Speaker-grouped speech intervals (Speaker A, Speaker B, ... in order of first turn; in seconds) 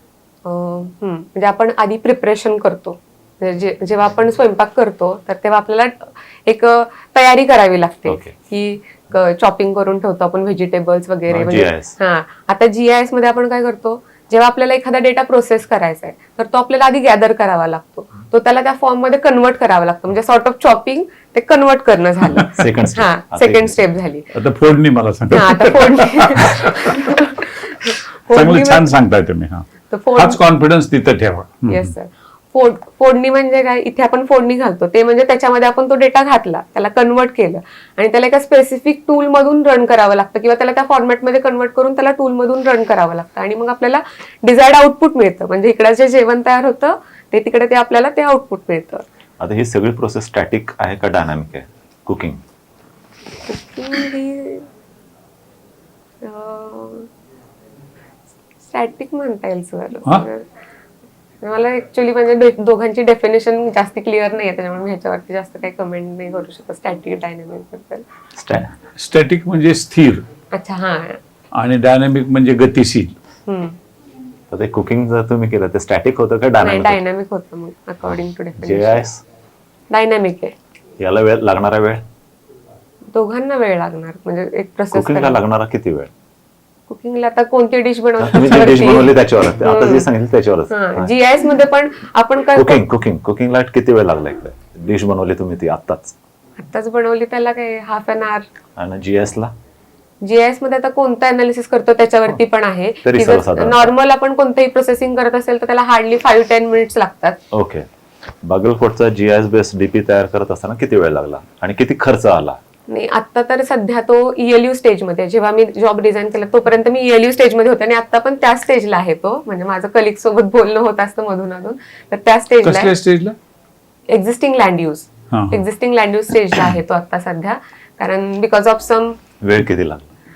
Speaker A: 0.4-24.3, 25.3-28.9, 29.9-30.4, 31.7-49.0, 53.5-54.7, 56.2-57.1, 58.6-60.5, 61.4-68.0, 70.5-71.2, 73.5-73.8, 76.6-79.1, 79.9-80.5, 83.1-85.4, 86.9-90.1, 90.7-92.8, 96.6-98.5, 100.2-107.4, 112.9-122.9, 124.1-129.2
Speaker B: 8.1-8.3, 11.3-11.9, 22.5-23.8, 49.4-52.4, 68.3-68.7, 74.5-77.0, 78.6-79.2, 81.0-82.0, 84.9-86.1, 88.2-91.2, 92.5-96.1, 98.8-99.5, 103.0-103.9, 107.5-107.9, 108.4-112.6, 129.4-130.1
Speaker C: 24.3-27.1, 28.3-31.9, 69.0-70.2, 71.5-73.1, 122.6-123.3, 125.3-125.6